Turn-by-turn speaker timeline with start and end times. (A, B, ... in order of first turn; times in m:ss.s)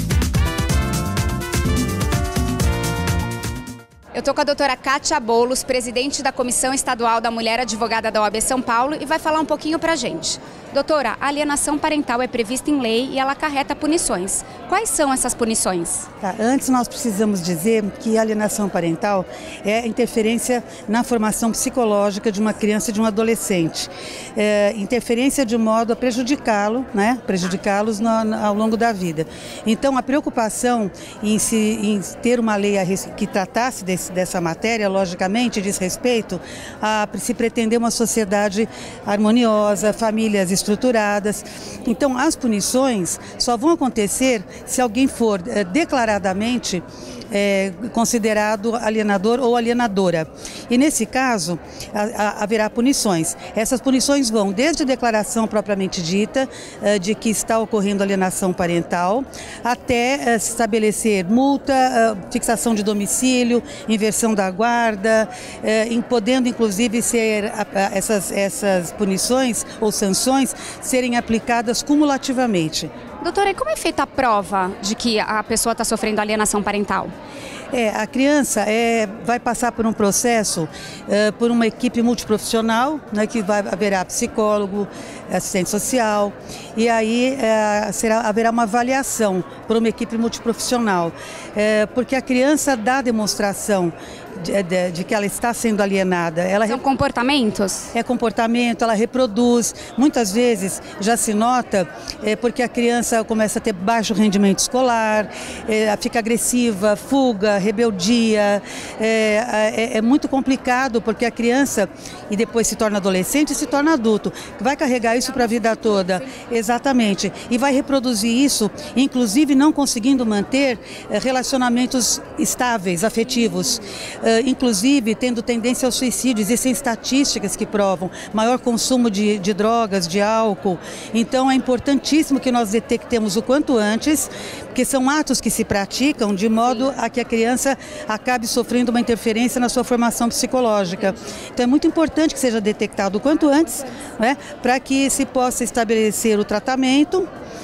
0:04.1-0:16.1 A
0:16.2-1:12.9 B
1:13.2-1:17.1 A
1:17.7-1:36.8 B
1:36.6-1:37.9 A
1:37.9-2:27.3 B